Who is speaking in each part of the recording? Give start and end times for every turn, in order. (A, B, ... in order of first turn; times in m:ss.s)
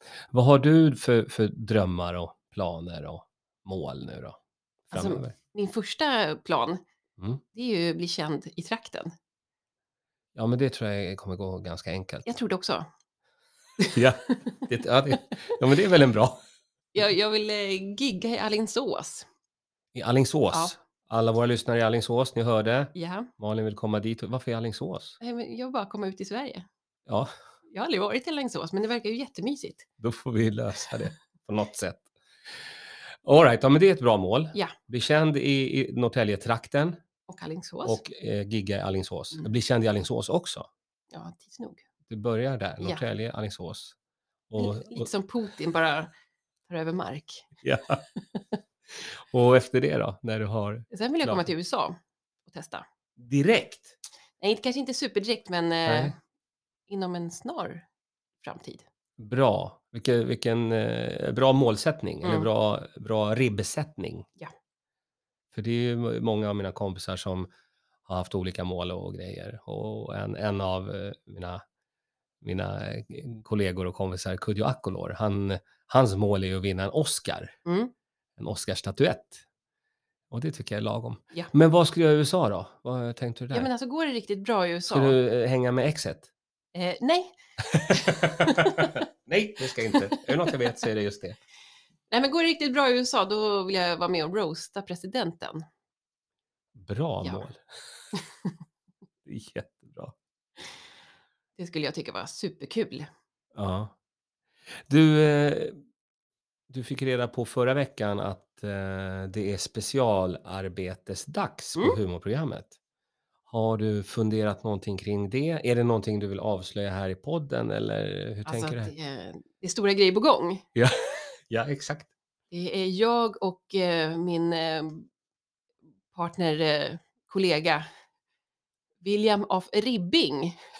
0:00.3-0:04.4 A
0:04.9-0:05.3 A
0:04.9-0:06.8 B
0:07.5-0:09.1 B
0:10.4-0:12.3 A
0:12.3-0:12.9 B
0:13.9-0:16.4 A
0:17.0-0:19.3 B
0:19.9-0:25.2 A
0:23.0-0:23.3 B
0:25.2-0:26.7 B
0:27.7-0:29.9 B
0:30.0-0:32.0 A
0:33.2-0:37.0 A
0:37.3-0:38.0 B
0:37.8-0:40.7 A
0:41.1-0:41.8 B
0:42.1-0:44.0 A
0:44.5-0:45.1 A
0:44.6-0:46.1 B
0:46.7-0:47.5 B
0:47.6-0:48.0 A
0:48.2-0:48.5 B
0:49.0-0:51.5 A
0:50.9-0:52.8 B
0:53.2-0:54.0 A
0:54.4-0:56.2 B
0:55.9-0:56.1 A
0:56.9-0:57.8 B
0:58.4-0:58.8 B
0:59.2-1:04.3 A
1:02.2-1:02.5 B
1:05.5-1:07.5 A
1:08.1-1:11.6 A
1:12.4-1:17.6 A
1:17.7-1:17.9 B
1:18.4-1:19.4 A
1:20.3-1:23.7 A
1:23.5-1:25.2 B
1:24.9-1:26.3 A
1:26.8-1:27.4 B
1:27.7-1:31.4 A
1:27.9-1:29.0 B
1:29.9-1:30.2 B
1:32.1-1:35.6 B
1:36.8-1:37.6 A
1:39.3-1:40.2 A
1:41.6-1:43.1 B
1:43.6-1:43.9 A
1:44.9-1:45.8 A
1:46.7-1:52.8 A
1:53.5-1:58.9 A
1:58.5-2:00.7 B
2:00.8-2:02.1 A
2:02.5-2:05.1 B
2:06.1-2:07.9 B
2:09.0-2:10.6 B